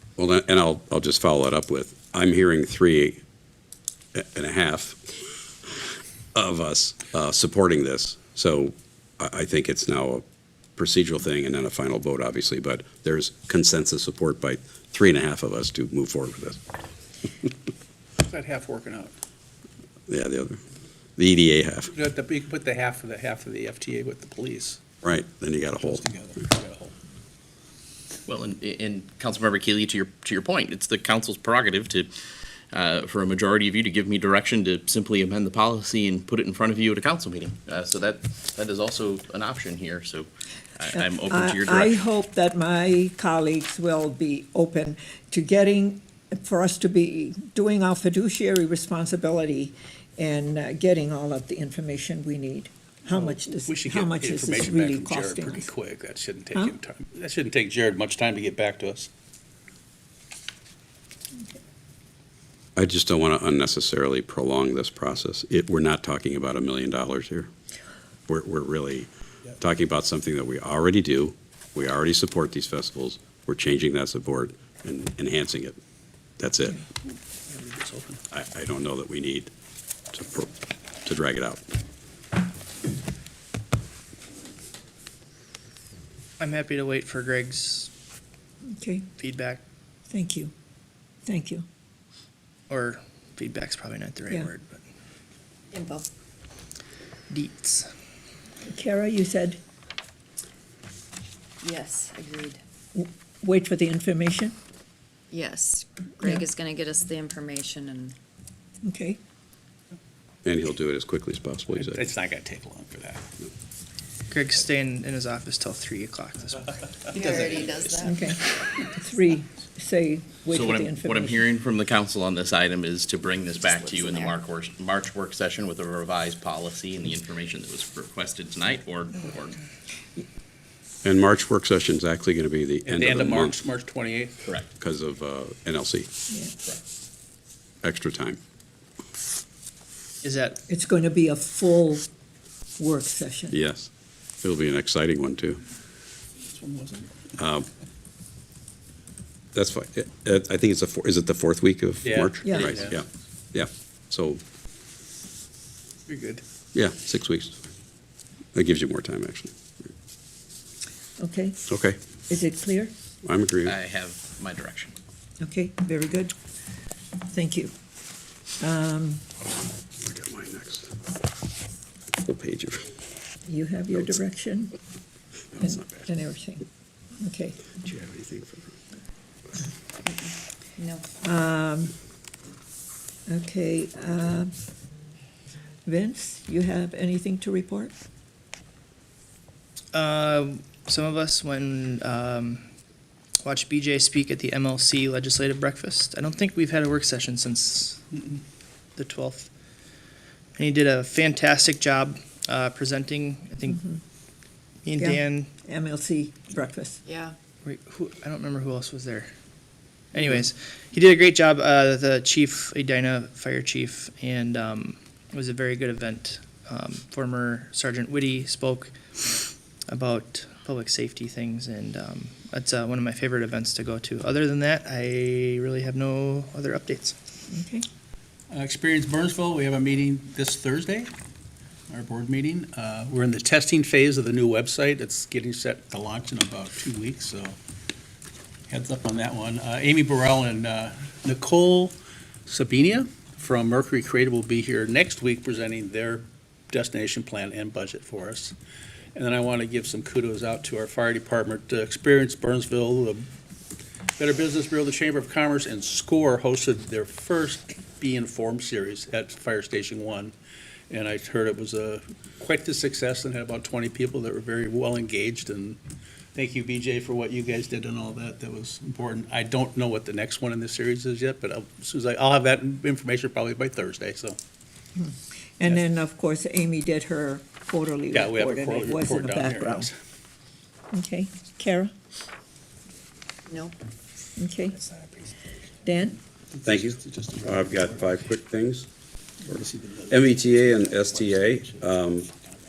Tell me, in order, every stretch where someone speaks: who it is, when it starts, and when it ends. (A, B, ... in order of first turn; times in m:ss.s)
0:00.2-0:03.2 A
0:04.1-0:10.2 A
0:10.8-0:16.6 A
0:18.3-0:19.1 B
0:20.1-0:20.6 A
0:21.2-0:21.9 A
0:22.2-0:24.8 B
0:25.0-0:26.1 A
0:26.2-0:26.9 B
0:28.3-0:32.1 C
0:32.7-0:42.0 C
0:41.0-0:55.7 D
0:53.7-0:59.1 B
1:02.8-1:07.5 A
1:08.3-1:15.8 A
1:16.4-1:16.8 A
1:17.5-1:18.2 B
1:18.3-1:19.5 A
1:20.1-1:20.5 A
1:21.0-1:21.6 A
1:26.4-1:27.9 E
1:28.7-1:29.0 D
1:29.2-1:29.6 E
1:30.1-1:30.5 D
1:31.2-1:31.6 D
1:32.7-1:34.8 E
1:35.7-1:36.1 F
1:37.3-1:37.9 E
1:38.6-1:39.6 D
1:41.6-1:42.6 F
1:42.9-1:44.6 D
1:45.3-1:48.2 F
1:48.8-1:49.2 D
1:50.4-1:52.1 A
1:52.2-1:53.2 B
1:54.3-1:56.8 E
1:56.9-1:57.4 B
1:57.1-1:58.3 F
1:58.0-2:01.4 D
2:00.5-2:09.6 C
2:03.6-2:04.4 F
2:11.0-2:13.6 A
2:12.9-2:14.3 B
2:14.8-2:16.1 A
2:17.8-2:18.4 A
2:20.2-2:20.6 E
2:20.7-2:22.0 D
2:22.8-2:23.6 D
2:23.5-2:25.6 A
2:26.5-2:26.9 B
2:27.4-2:27.7 A
2:29.5-2:34.4 A
2:32.0-2:32.9 B
2:32.4-2:32.8 D
2:36.1-2:36.4 B
2:36.7-2:37.6 A
2:38.5-2:39.5 A
2:41.2-2:41.6 D
2:41.7-2:42.0 A
2:42.3-2:42.9 D
2:43.2-2:43.7 A
2:43.6-2:45.0 C
2:45.4-2:46.3 D
2:47.3-2:47.7 D
2:48.6-2:49.2 D
2:50.0-2:50.9 A
2:52.2-2:52.9 A
2:53.5-2:54.7 D
2:55.5-2:56.1 A
2:55.6-2:56.6 D
2:57.2-2:57.7 D
2:57.7-2:58.8 A
3:00.0-3:01.1 F
3:01.2-3:01.9 D
3:03.3-3:04.5 D
3:05.8-3:07.9 D
3:09.9-3:12.7 E
3:13.4-3:18.0 E
3:19.0-3:19.5 E
3:20.6-3:23.8 E
3:23.6-3:24.0 D
3:24.8-3:25.5 E
3:25.0-3:27.0 D
3:27.0-3:27.4 F
3:27.6-3:29.3 E
3:30.1-3:38.9 E
3:39.9-3:47.2 E
3:47.5-3:47.8 D
3:48.5-3:51.1 B
3:51.9-3:57.6 B
3:58.7-4:01.9 B
4:02.5-4:08.5 B
4:09.1-4:13.2 B
4:14.2-4:20.3 B
4:20.9-4:25.8 B
4:26.3-4:34.4 B
4:35.0-4:39.9 D
4:38.1-4:39.9 B
4:40.9-4:41.9 D
4:43.5-4:43.8 F
4:44.4-4:44.8 D
4:45.8-4:46.2 D
4:46.6-4:48.9 A
4:49.5-4:52.3 A